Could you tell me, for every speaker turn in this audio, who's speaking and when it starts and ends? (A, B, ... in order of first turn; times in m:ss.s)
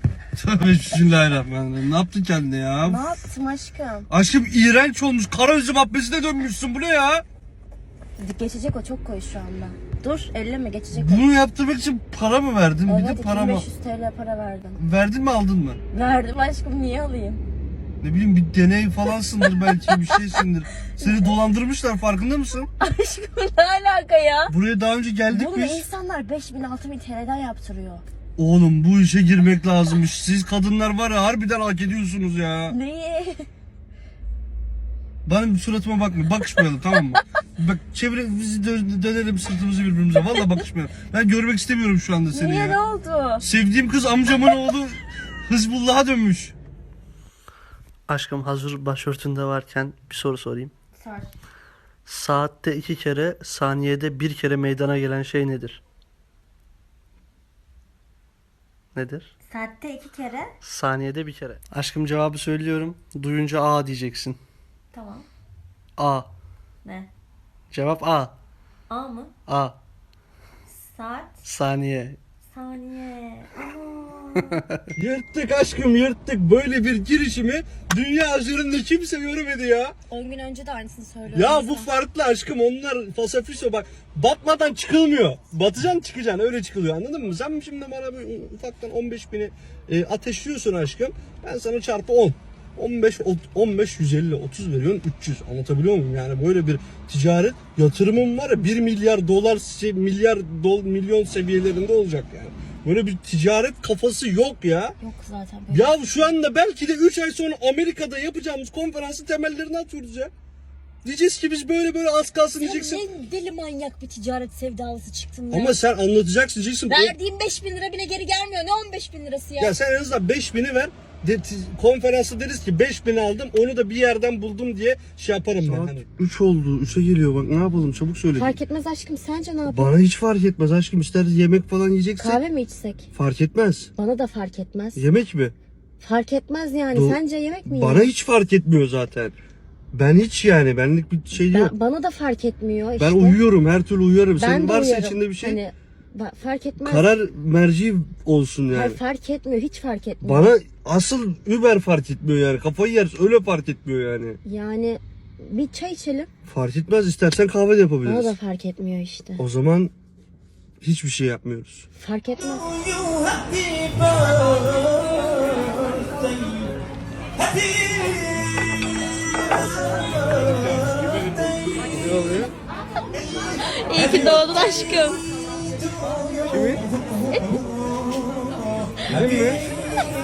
0:00.4-0:03.1 A
0:02.8-0:04.1 B
0:04.1-0:07.2 A
0:08.2-0:11.2 B
0:10.9-0:13.6 A
0:12.8-0:14.8 B
0:14.8-0:15.8 A
0:15.9-0:17.4 B
0:18.0-0:22.7 A
0:19.4-0:20.2 B
0:21.0-0:21.4 B
0:22.8-0:24.5 B
0:24.5-0:25.8 A
0:25.3-0:28.0 B
0:28.4-0:32.7 A
0:32.7-0:33.4 B
0:35.2-0:42.8 A
0:42.3-0:43.4 B
0:43.4-0:46.5 A
0:48.1-0:50.7 A
0:50.9-0:51.3 B
0:52.0-0:55.8 A
0:58.9-0:59.3 A
0:59.4-1:00.5 B
1:00.6-1:04.4 A
1:04.9-1:05.3 B
1:06.0-1:06.3 A
1:06.8-1:07.1 B
1:07.7-1:08.3 A
1:08.9-1:09.3 B
1:09.5-1:09.8 A
1:10.7-1:11.4 B
1:11.4-1:12.2 A
1:12.4-1:14.6 B
1:14.9-1:19.9 A
1:20.1-1:21.9 B
1:21.3-1:45.0 A
1:45.0-1:46.3 B
1:45.7-1:50.3 A
1:51.0-1:53.0 A
1:52.6-1:55.8 B
1:55.5-1:57.2 A
1:56.9-1:59.8 B
1:59.6-2:08.6 A
2:08.4-2:09.9 B
2:09.7-2:12.4 A
2:12.2-2:13.1 B
2:13.1-2:13.9 A
2:14.0-2:15.0 B
2:15.0-2:15.5 A
2:16.0-2:18.1 B
2:16.9-2:19.3 A
2:19.9-2:21.7 A
2:21.4-2:23.4 B
2:23.0-2:25.6 A
2:24.4-2:27.1 B
2:26.8-2:29.0 A
2:28.7-2:30.6 B
2:30.2-2:34.4 A
2:34.4-2:36.3 B
2:36.5-2:38.4 A
2:38.0-2:39.4 B
2:39.4-2:39.9 A
2:40.8-2:41.9 A
2:42.0-2:42.7 B
2:43.8-2:44.6 A
2:50.3-2:52.5 A
2:53.6-2:55.2 B
2:54.0-2:54.5 A
2:56.4-2:56.8 A
2:57.3-2:57.6 B
2:59.1-2:59.6 A